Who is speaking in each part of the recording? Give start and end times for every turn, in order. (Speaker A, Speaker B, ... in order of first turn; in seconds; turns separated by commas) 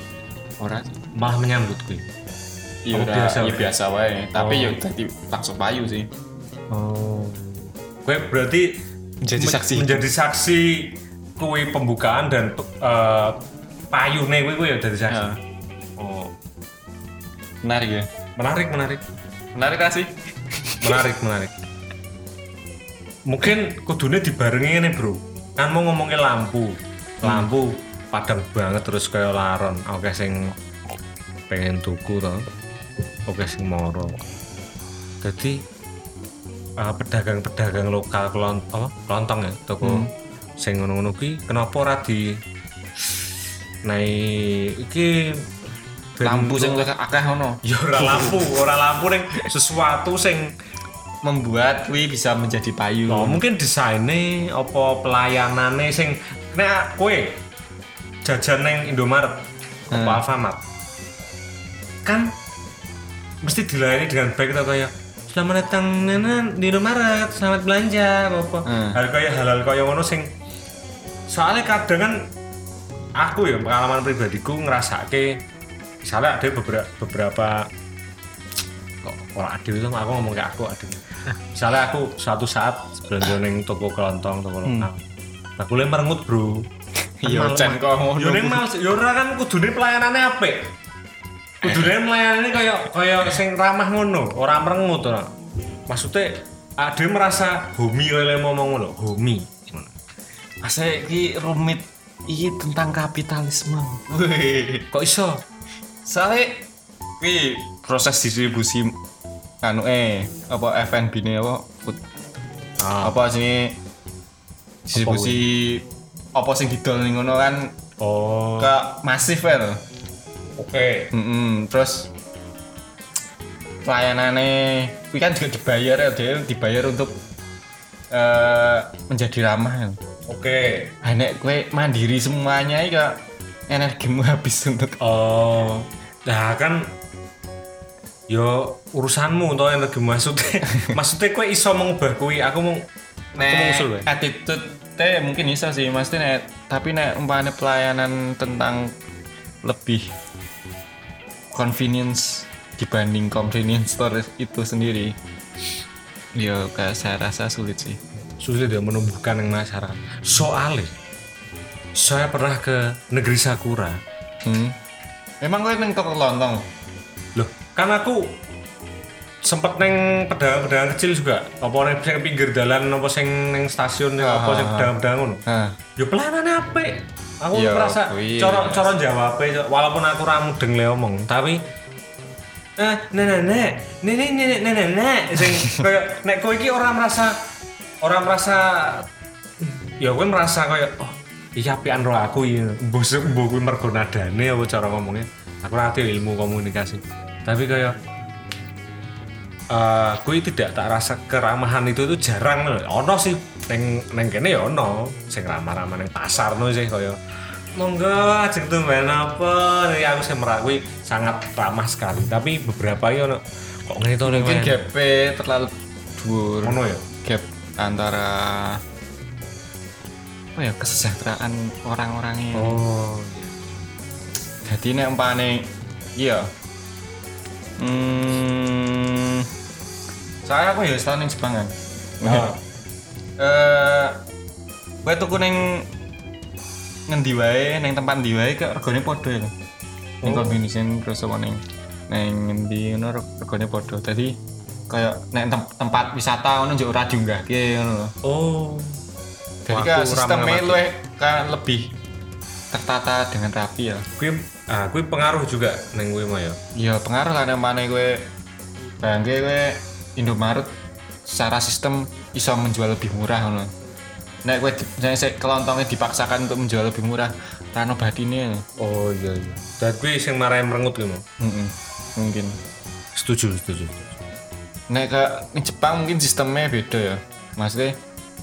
Speaker A: 0.6-1.0, Speaker B: 1.1-2.1, Speaker A: 2.9-6.1, Speaker B: 2.9-3.7, Speaker B: 4.4-4.8, Speaker B: 6.7-8.8, Speaker A: 9.2-10.1, Speaker B: 9.4-15.2, Speaker A: 15.1-15.4, Speaker B: 16.0-16.3, Speaker A: 17.6-18.1, Speaker B: 18.4-19.0, Speaker A: 19.6-21.0, Speaker B: 20.8-21.6, Speaker B: 23.3-30.6, Speaker A: 27.2-27.5, Speaker B: 31.5-32.5, Speaker B: 33.3-34.2, Speaker B: 35.2-35.6, Speaker B: 36.8-40.1, Speaker A: 39.8-40.1, Speaker B: 40.6-42.4, Speaker B: 43.8-45.5, Speaker B: 46.2-46.9, Speaker A: 46.2-48.6, Speaker B: 47.6-50.5, Speaker A: 51.2-53.4, Speaker B: 53.1-57.4, Speaker B: 58.2-60.6, Speaker A: 59.9-60.2, Speaker B: 62.0-62.3, Speaker B: 63.4-70.3, Speaker A: 68.7-69.0, Speaker B: 71.3-72.3, Speaker B: 73.2-75.4, Speaker B: 76.0-77.7, Speaker B: 79.0-85.0, Speaker A: 84.6-84.9, Speaker B: 85.6-86.7, Speaker A: 87.2-88.7, Speaker B: 87.2-90.7, Speaker A: 91.6-91.9, Speaker B: 91.6-95.3, Speaker B: 95.9-99.9, Speaker A: 100.6-104.9, Speaker B: 104.9-105.4, Speaker A: 106.0-106.7, Speaker A: 107.2-109.0, Speaker A: 109.6-112.0, Speaker B: 112.8-113.2, Speaker A: 113.0-113.8, Speaker A: 114.9-117.8, Speaker B: 115.0-115.4, Speaker B: 118.0-118.7, Speaker A: 118.6-119.8, Speaker B: 120.6-121.1, Speaker A: 121.1-122.1, Speaker A: 123.8-127.2, Speaker A: 128.1-130.0, Speaker B: 130.3-130.9, Speaker A: 131.0-135.0, Speaker B: 135.0-136.9, Speaker B: 138.3-144.1, Speaker A: 143.4-148.9, Speaker A: 149.6-150.1, Speaker A: 151.5-155.2, Speaker A: 156.4-158.0, Speaker B: 158.4-160.9, Speaker B: 161.9-164.0, Speaker A: 164.4-164.8, Speaker A: 165.4-166.7, Speaker B: 167.3-168.4, Speaker B: 169.4-175.4, Speaker A: 174.2-174.9, Speaker A: 175.5-175.8, Speaker B: 176.0-181.6, Speaker A: 177.5-178.8, Speaker B: 182.8-187.4, Speaker B: 188.0-198.0, Speaker B: 199.7-207.2, Speaker B: 207.8-214.8, Speaker A: 214.2-218.8, Speaker B: 216.6-217.1, Speaker A: 220.6-222.8, Speaker B: 222.5-223.5, Speaker A: 224.7-226.5, Speaker A: 227.8-229.5, Speaker A: 230.4-232.6, Speaker B: 232.2-232.6, Speaker A: 233.4-234.2, Speaker A: 235.0-235.9, Speaker A: 237.1-239.5, Speaker B: 240.2-240.6, Speaker A: 240.2-248.2, Speaker B: 248.2-249.0, Speaker A: 249.7-251.9, Speaker B: 249.7-250.8, Speaker A: 252.7-254.1, Speaker B: 254.2-256.6, Speaker A: 256.8-258.3, Speaker A: 259.0-260.7, Speaker A: 261.3-263.7, Speaker A: 264.4-268.6, Speaker B: 268.8-271.2, Speaker A: 271.4-272.6, Speaker B: 273.1-274.0, Speaker A: 274.9-278.0